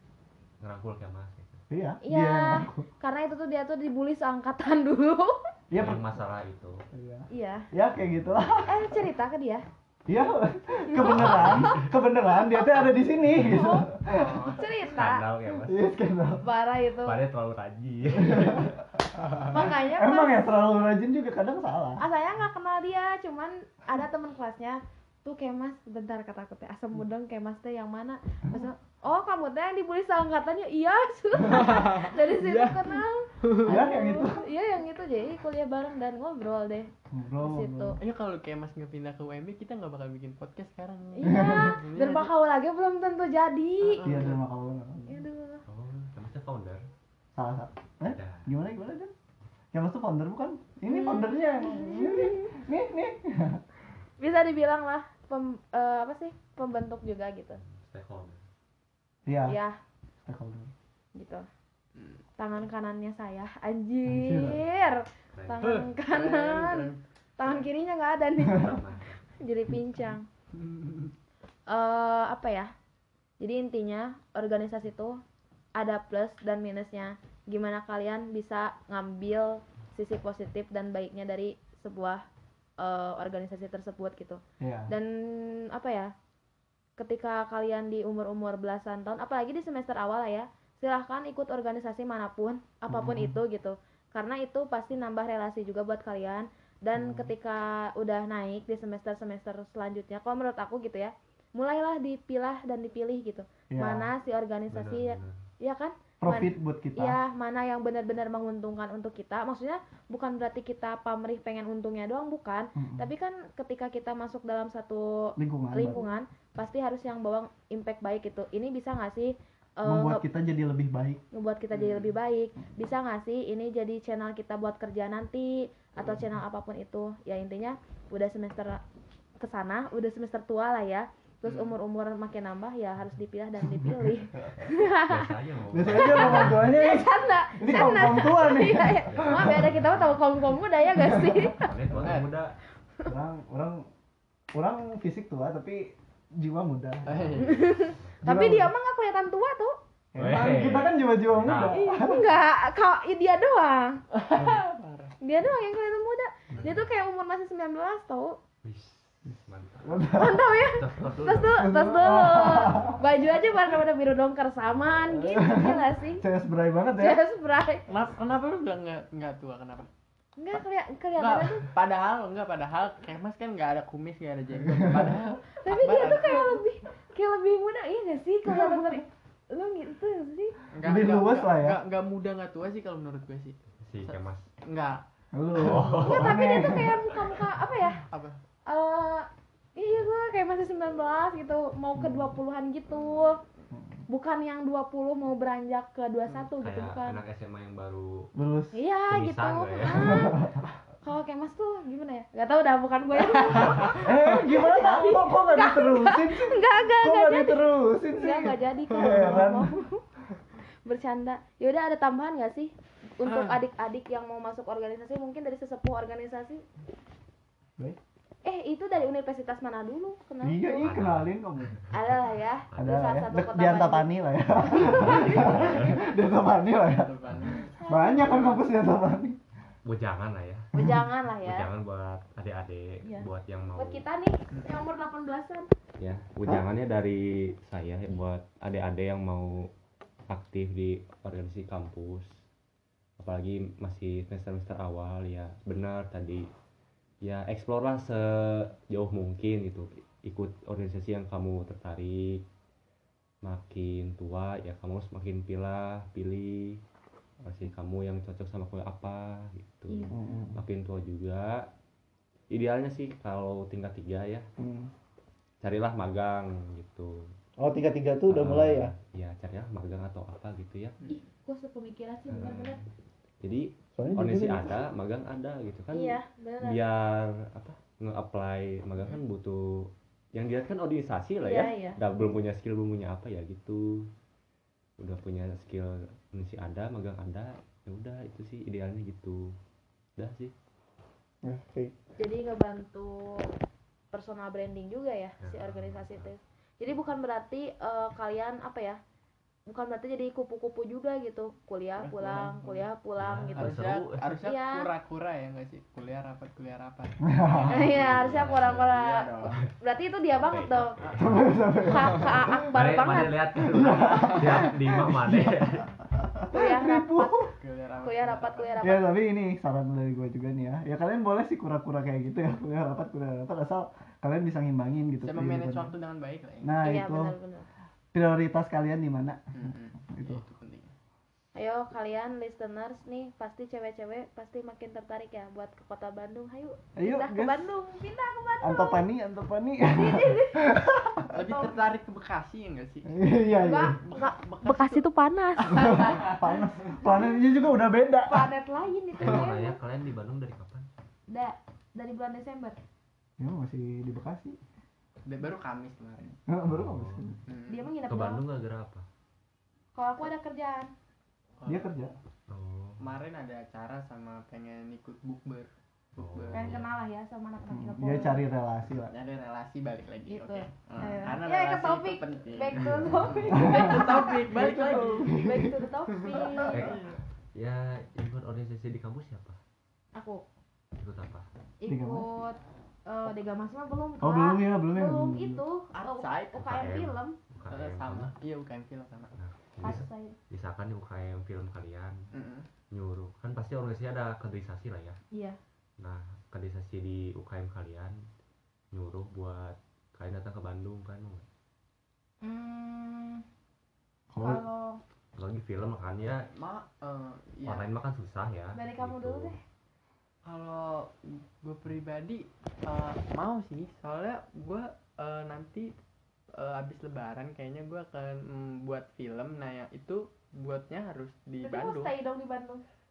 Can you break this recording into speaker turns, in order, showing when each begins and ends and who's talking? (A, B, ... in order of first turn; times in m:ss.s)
0:00.6-0:01.6 A
0:01.7-0:02.8 B
0:02.0-0:05.5 C
0:05.7-0:06.1 B
0:05.7-0:06.8 A
0:06.9-0:08.8 B
0:07.3-0:07.7 C
0:08.2-0:08.7 A
0:08.7-0:09.6 C
0:10.0-0:14.5 B
0:10.9-0:11.9 C
0:11.0-0:11.9 A
0:12.5-0:13.8 C
0:14.1-0:14.6 D
0:14.4-0:15.2 C
0:14.9-0:15.8 A
0:15.6-0:16.4 B
0:16.4-0:17.2 C
0:17.0-0:18.8 A
0:18.1-0:18.7 B
0:19.5-0:20.5 C
0:19.7-0:22.0 B
0:22.0-0:38.0 C
0:31.4-0:33.8 D
0:33.6-0:34.5 B
0:37.1-0:38.0 B
0:38.0-0:42.3 D
0:41.1-0:44.2 C
0:41.2-0:41.8 B
0:43.8-0:44.4 D
0:44.0-0:45.2 B
0:45.1-0:45.6 C
0:45.7-0:46.8 A
0:47.3-0:49.1 B
0:48.1-0:48.5 A
0:49.7-0:53.6 B
0:50.9-0:52.6 C
0:54.2-0:57.6 C
0:57.6-0:58.4 A
0:59.3-0:59.6 B
0:59.4-0:59.8 C
1:00.2-1:00.7 B
1:01.1-1:01.4 C
1:02.0-1:02.2 D
1:02.4-1:08.8 C
1:04.0-1:04.6 B
1:05.3-1:05.7 A
1:05.6-1:07.7 D
1:08.4-1:09.2 A
1:09.4-1:10.3 C
1:10.5-1:11.1 D
1:11.7-1:12.7 C
1:13.4-1:15.2 C
1:15.7-1:22.2 C
1:22.8-1:26.1 C
1:24.6-1:24.9 B
1:27.0-2:00.2 C
1:32.9-1:33.4 B
1:36.9-1:37.3 B
1:43.7-1:44.1 B
1:44.7-1:45.4 A
1:46.2-1:47.2 B
1:52.8-1:53.1 B
1:55.4-1:56.1 B
1:59.8-2:01.2 B
2:01.3-2:08.8 C
2:01.7-2:02.1 D
2:09.4-2:15.3 C
2:11.4-2:11.8 D
2:13.6-2:14.6 B
2:14.9-2:16.7 A
2:15.7-2:19.8 B
2:15.8-2:21.8 C
2:19.0-2:20.2 A
2:20.9-2:22.1 B
2:21.4-2:22.6 A
2:22.0-2:22.3 D
2:23.0-2:23.8 B
2:24.5-2:27.3 B
2:27.0-2:27.8 D
2:27.0-2:28.2 A
2:27.4-2:29.8 C
2:28.2-2:28.7 B
2:30.1-2:32.2 B
2:30.2-2:31.8 A
2:31.7-2:34.0 C
2:34.1-2:35.1 D
2:34.3-2:34.6 B
2:35.2-2:38.4 C
2:36.5-2:36.8 A
2:38.6-2:42.1 A
2:39.8-2:40.4 B
2:40.1-2:46.2 C
2:41.5-2:43.0 B
2:44.6-2:45.0 A
2:45.1-2:47.2 B
2:46.9-2:47.8 C
2:47.9-2:49.9 D
2:50.4-2:51.7 C
2:51.2-2:56.6 D
2:54.7-2:55.0 B
2:55.6-3:00.6 C
3:00.7-3:05.0 D
3:00.8-3:01.8 B
3:03.8-3:04.5 A
3:05.3-3:07.1 B
3:05.6-3:06.4 A
3:05.9-3:08.0 C
3:08.1-3:08.4 D
3:08.6-3:13.4 C
3:11.9-3:12.4 B
3:13.7-3:14.0 B
3:14.1-3:17.2 C
3:16.6-3:18.3 A
3:18.3-3:18.8 B
3:18.7-3:20.5 C
3:19.1-3:20.4 A
3:19.9-3:20.6 B
3:21.0-3:30.0 C
3:23.2-3:24.1 D
3:24.0-3:29.7 B
3:30.8-3:36.6 C
3:33.2-3:33.6 D
3:38.4-3:41.0 C
3:40.4-3:41.8 B
3:40.8-3:41.9 A
3:41.9-3:44.0 C
3:42.7-3:43.1 A
3:42.8-3:47.2 B
3:44.6-3:45.4 C
3:44.8-3:46.1 A
3:45.1-3:45.7 D
3:46.7-3:48.6 D
3:47.3-3:47.6 A
3:47.8-3:48.5 C
3:47.8-3:49.4 B
3:49.8-3:50.7 A
3:50.7-3:51.7 C
3:51.4-3:54.0 A
3:53.0-3:55.7 C
3:54.5-3:54.8 D
3:56.0-3:59.7 A
4:00.3-4:02.4 A
4:03.2-4:06.5 A
4:07.2-4:12.4 A
4:13.4-4:16.8 A
4:17.4-4:21.7 A
4:19.9-4:20.1 C
4:20.1-4:20.6 B
4:22.5-4:24.5 A
4:24.6-4:24.9 B
4:25.6-4:27.3 A
4:27.6-4:28.9 B
4:28.3-4:31.0 A
4:31.1-4:32.8 C
4:32.3-4:32.8 A
4:33.4-4:44.1 A
4:34.0-4:34.8 B
4:35.9-4:36.8 C
4:41.4-4:42.0 C
4:45.0-4:49.6 A
4:50.2-4:50.5 A
4:51.4-4:51.9 B
4:52.2-4:53.5 C
4:54.1-4:59.0 C
4:55.4-4:56.3 A
4:59.7-5:03.7 C
5:02.0-5:02.8 D
5:03.2-5:04.2 A
5:03.6-5:09.6 D
5:04.3-5:04.9 C
5:07.2-5:07.9 B
5:07.6-5:11.0 C
5:07.9-5:08.9 A
5:10.3-5:11.5 A
5:11.0-5:11.6 D
5:11.2-5:12.7 B
5:11.8-5:13.4 C
5:12.7-5:15.9 A
5:13.6-5:15.6 B
5:16.1-5:17.5 B
5:16.5-5:17.5 C
5:17.6-5:18.7 D
5:18.0-5:19.0 C
5:18.8-5:25.9 B
5:25.2-5:26.9 D
5:26.6-5:27.3 B
5:26.8-5:27.7 C
5:28.1-5:30.4 B
5:29.5-5:30.9 D
5:31.5-5:39.0 C
5:37.0-5:37.7 B
5:38.6-5:41.4 B
5:39.8-5:40.7 C
5:41.3-5:43.3 D
5:41.4-5:41.7 C
5:43.1-5:44.0 B
5:43.6-5:46.3 C
5:44.0-5:45.0 D
5:45.6-5:46.9 D
5:45.7-5:48.5 B
5:48.3-5:49.8 C
5:49.2-5:50.9 A
5:51.3-5:52.8 C
5:53.4-5:54.6 B
5:55.2-5:56.4 D
5:56.4-5:57.4 B
5:56.6-5:57.3 A
5:57.5-5:57.9 D
5:57.7-5:58.4 C
5:58.1-5:59.0 A
5:59.9-6:00.9 C
6:01.6-6:01.9 D
6:01.6-6:02.1 B
6:02.5-6:03.0 A
6:03.0-6:06.8 D
6:06.2-6:06.9 A
6:06.5-6:08.4 C
6:07.7-6:09.1 B
6:09.0-6:15.4 D
6:10.3-6:17.0 C
6:12.8-6:13.6 A
6:13.6-6:15.8 B
6:16.1-6:17.2 D
6:16.7-6:17.0 A
6:17.5-6:19.6 A
6:20.1-6:20.4 C
6:21.0-6:21.4 A
6:21.8-6:27.4 C
6:21.9-6:22.3 B
6:24.2-6:25.6 B
6:25.9-6:26.8 D
6:26.5-6:28.3 A
6:27.7-6:29.3 D
6:29.4-6:32.3 A
6:29.8-6:30.4 C
6:32.3-6:32.7 D
6:32.9-6:35.2 A
6:35.3-6:35.6 C
6:36.0-6:38.2 A
6:38.9-6:41.4 A
6:42.4-6:43.4 C
6:44.3-6:44.6 B
6:44.4-6:45.0 C
6:45.4-6:46.5 A
6:46.5-6:47.8 D
6:47.6-6:49.6 A
6:48.7-6:49.6 C
6:50.4-6:55.9 D
6:56.6-7:02.1 D
7:01.6-7:02.8 C